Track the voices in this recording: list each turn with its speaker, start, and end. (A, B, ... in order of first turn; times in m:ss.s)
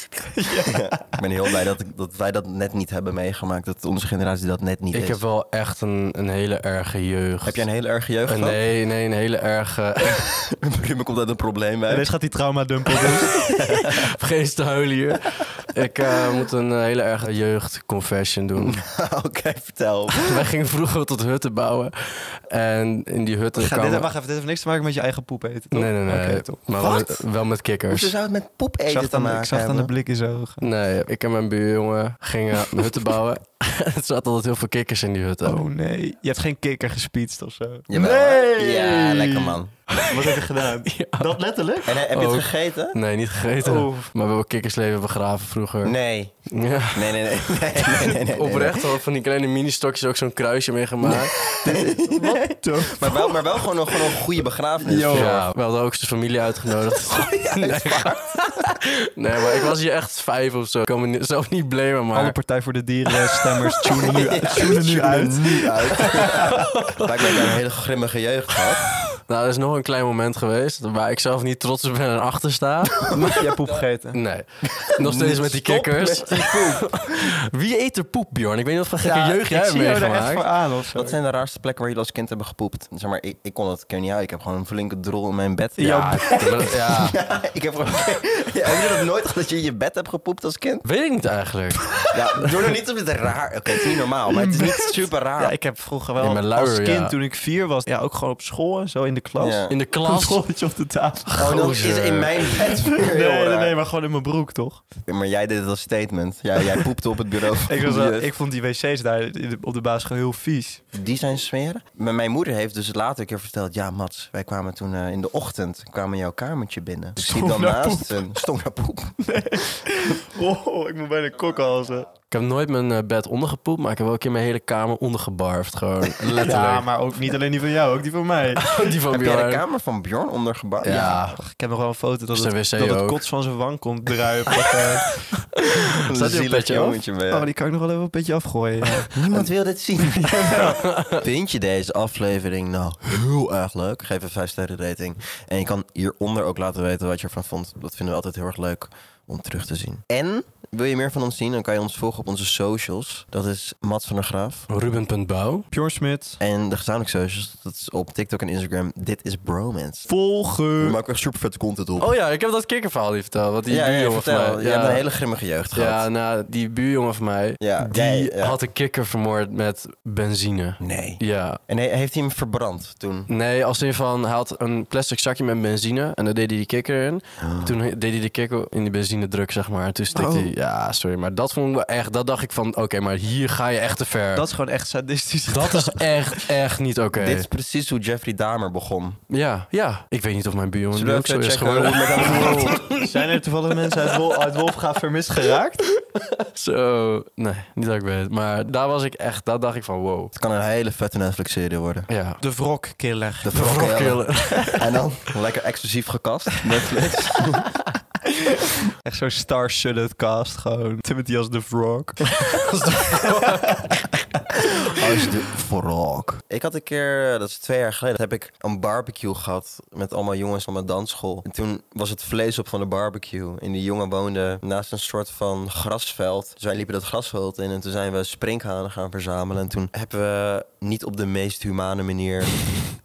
0:00.3-0:01.2 A
0:00.5-0:05.2 B
0:04.9-0:07.7 C
0:07.4-0:08.6 B
0:08.3-0:10.2 C
0:10.1-0:12.1 B
0:11.9-0:13.4 A
0:13.3-0:14.1 B
0:13.5-0:18.8 C
0:18.6-0:20.4 B
0:20.1-0:24.1 C
0:23.5-0:26.6 A
0:25.7-0:28.1 C
0:26.8-0:27.2 B
0:27.9-0:29.9 B
0:28.9-0:30.6 A
0:30.6-0:35.6 C
0:35.4-0:42.0 A
0:37.9-0:39.7 B
0:39.9-0:41.4 C
0:41.8-0:43.0 B
0:42.1-0:45.9 C
0:43.6-0:44.1 A
0:45.8-0:48.9 B
0:46.5-0:51.4 C
0:51.0-0:55.4 B
0:51.6-0:53.9 A
0:54.8-0:55.4 A
0:55.1-1:02.4 C
0:57.0-0:58.7 B
1:02.1-1:06.7 A
1:03.4-1:04.1 C
1:03.9-1:08.9 B
1:06.6-1:07.3 C
1:09.2-1:13.4 C
1:13.1-1:14.2 A
1:14.1-1:20.5 C
1:14.6-1:16.9 B
1:19.0-1:21.2 A
1:20.9-1:30.8 B
1:25.8-1:26.7 A
1:25.8-1:27.2 C
1:30.8-1:31.8 C
1:32.1-1:35.5 B
1:34.3-1:41.6 A
1:36.2-1:37.2 C
1:39.4-1:39.7 B
1:39.7-1:40.4 C
1:41.3-1:42.6 C
1:41.4-1:43.7 B
1:42.8-1:44.8 A
1:45.0-1:48.3 B
1:47.6-1:50.8 A
1:50.9-1:59.2 B
1:57.2-1:58.3 A
1:59.2-2:02.1 A
2:02.3-2:06.9 C
2:06.2-2:08.7 A
2:08.6-2:09.6 C
2:09.1-2:11.2 B
2:10.8-2:11.4 C
2:11.3-2:15.2 A
2:12.3-2:13.2 C
2:14.5-2:14.8 C
2:15.6-2:17.0 C
2:15.9-2:17.5 B
2:17.3-2:19.2 A
2:19.1-2:34.7 B
2:20.1-2:20.8 A
2:20.4-2:21.2 C
2:34.7-2:35.7 C
2:35.7-2:36.4 A
2:36.4-2:40.1 B
2:40.1-2:41.0 A
2:40.8-2:42.1 B
2:42.0-2:45.0 C
2:43.7-2:46.1 B
2:45.7-2:51.6 C
2:47.6-2:48.6 B
2:50.8-2:53.3 B
2:53.3-3:04.5 C
2:57.4-2:57.7 B
3:00.1-3:00.5 A
3:04.3-3:06.5 A
3:05.5-3:07.5 C
3:07.2-3:09.2 B
3:09.3-3:14.6 C
3:10.9-3:12.8 B
3:12.2-3:15.9 A
3:16.3-3:20.3 C
3:20.3-3:22.1 B
3:22.1-3:22.4 C
3:22.4-3:23.8 A
3:23.4-3:27.7 B
3:23.5-3:24.9 C
3:28.2-3:34.0 A
3:32.5-3:33.9 C
3:34.9-3:52.6 B